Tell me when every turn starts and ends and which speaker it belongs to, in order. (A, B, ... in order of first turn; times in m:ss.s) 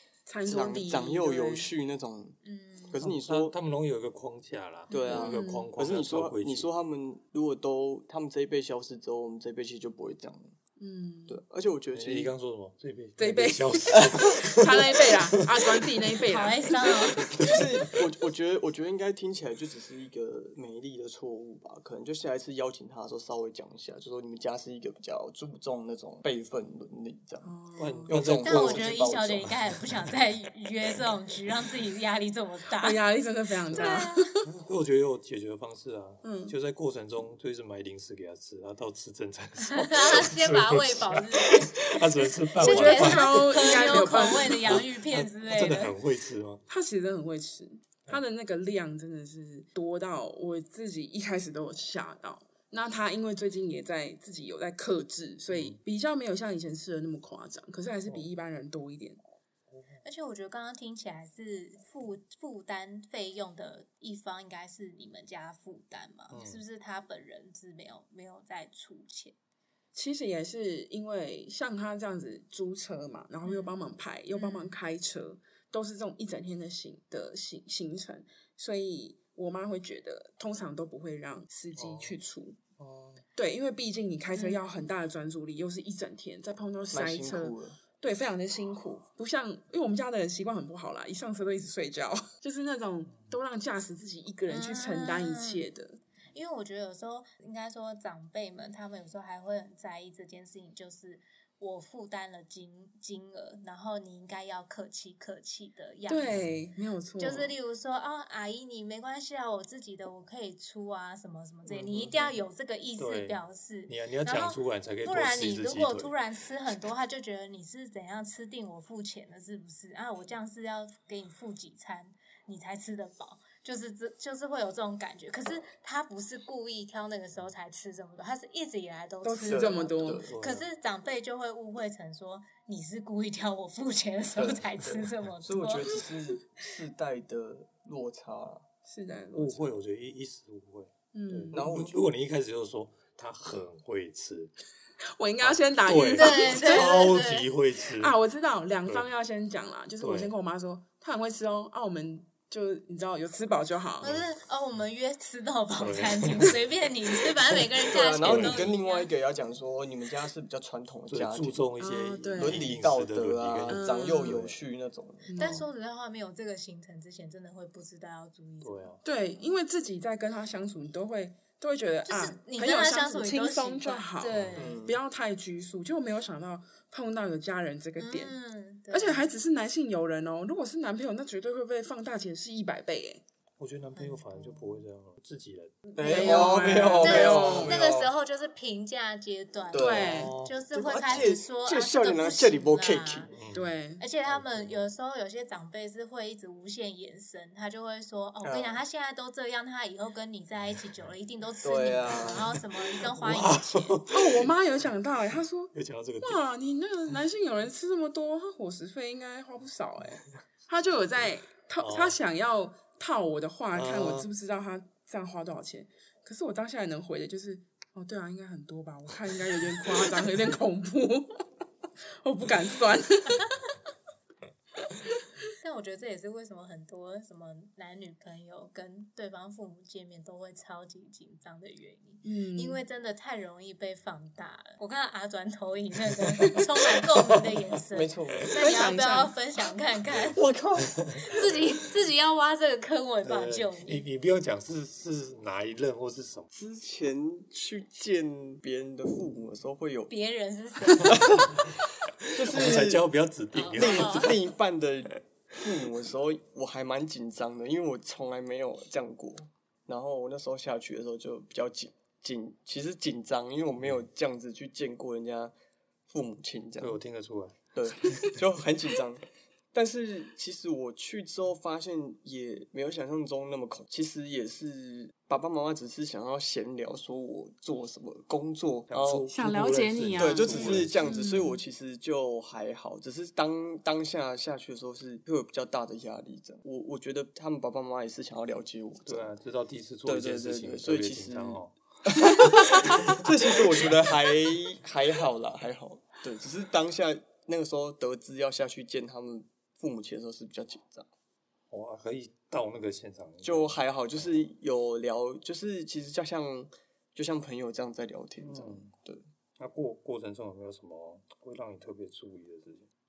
0:00.2-0:01.7 A
0:00.4-0:02.4 B
0:02.4-0:03.0 C
0:02.9-0:03.5 B
0:03.0-0:06.7 D
0:04.9-0:05.7 A
0:04.9-0:10.5 B
0:10.8-0:11.4 A
0:11.3-0:12.3 B
0:11.9-0:15.9 D
0:13.2-0:17.3 A
0:16.2-0:17.3 C
0:17.3-0:17.8 D
0:17.4-0:27.5 B
0:27.4-0:28.1 A
0:27.8-0:29.9 D
0:28.1-0:29.5 B
0:28.4-0:33.0 C
0:32.8-0:34.4 A
0:33.7-0:34.3 C
0:34.4-0:46.6 D
0:36.2-0:36.5 A
0:39.6-0:42.0 C
0:42.6-0:44.8 A
0:42.6-0:46.0 C
0:46.7-0:59.2 A
0:55.5-0:55.8 D
0:59.7-1:00.0 D
1:00.0-1:09.3 C
1:06.3-1:06.6 D
1:09.9-1:22.6 A
1:13.4-1:13.7 C
1:14.3-1:14.7 C
1:21.8-1:22.2 D
1:22.8-1:23.2 D
1:23.4-1:36.0 A
1:24.3-1:24.6 C
1:26.9-1:27.8 B
1:34.5-1:35.6 C
1:36.3-1:46.3 C
1:46.1-1:47.5 A
1:46.3-1:46.5 D
1:47.2-2:15.9 C
1:51.7-1:52.4 D
1:53.0-1:56.1 D
2:09.2-2:10.2 A
2:09.5-2:10.3 B
2:10.3-2:10.7 D
2:14.4-2:18.6 B
2:18.8-2:19.7 A
2:19.3-2:24.5 D
2:21.1-2:21.7 A
2:21.5-2:22.0 B
2:25.2-2:27.0 A
2:25.4-2:28.1 D
2:26.2-2:27.4 C
2:28.0-2:34.1 A
2:30.0-2:30.3 D
2:34.0-2:34.3 D
2:34.0-2:39.1 C
2:35.8-2:36.6 D
2:37.9-2:41.6 B
2:38.2-2:38.6 D
2:41.1-2:44.6 D
2:41.8-2:42.7 A
2:42.3-2:45.3 B
2:43.7-2:44.4 A
2:45.3-2:45.6 A
2:45.4-2:48.9 C
2:48.6-2:49.0 D
2:49.0-2:58.3 A
2:52.0-2:54.8 C
2:54.3-2:54.8 D
2:54.6-2:55.0 B
2:58.0-2:59.2 C
2:58.9-3:03.2 A
3:03.6-3:05.9 D
3:04.0-3:04.8 C
3:06.0-3:07.8 A
3:06.0-3:08.1 B
3:06.1-3:13.3 C
3:09.7-3:13.3 B
3:09.7-3:10.3 A
3:10.0-3:10.6 D
3:13.3-3:13.7 D
3:13.5-3:14.0 A
3:14.0-3:24.0 C
3:14.2-3:14.8 D
3:18.4-3:18.8 B
3:21.6-3:22.5 B
3:23.1-3:24.5 D
3:24.1-3:41.4 A
3:25.7-3:26.4 D
3:31.8-3:32.2 D
3:33.7-3:34.3 D
3:42.2-3:43.5 A
3:45.6-4:00.4 C
3:52.2-3:52.8 A
3:57.9-3:58.5 B
3:58.5-3:59.3 A
4:00.3-4:01.1 B
4:00.9-4:01.4 D
4:01.2-4:04.0 C
4:03.2-4:06.5 D
4:06.5-4:10.1 B
4:10.1-4:11.4 C
4:11.0-4:11.7 B
4:12.3-4:13.0 B
4:12.4-4:14.4 D
4:13.5-4:14.4 C
4:13.7-4:25.5 B
4:26.1-4:27.0 B
4:26.8-4:27.6 D
4:27.7-4:39.3 B
4:38.9-4:41.1 D
4:39.3-4:41.6 A
4:40.2-4:49.3 B
4:49.0-4:51.7 D
4:50.0-5:01.1 B
5:01.7-5:04.3 D
5:03.4-5:09.2 B
5:08.4-5:08.9 D
5:09.6-5:12.9 D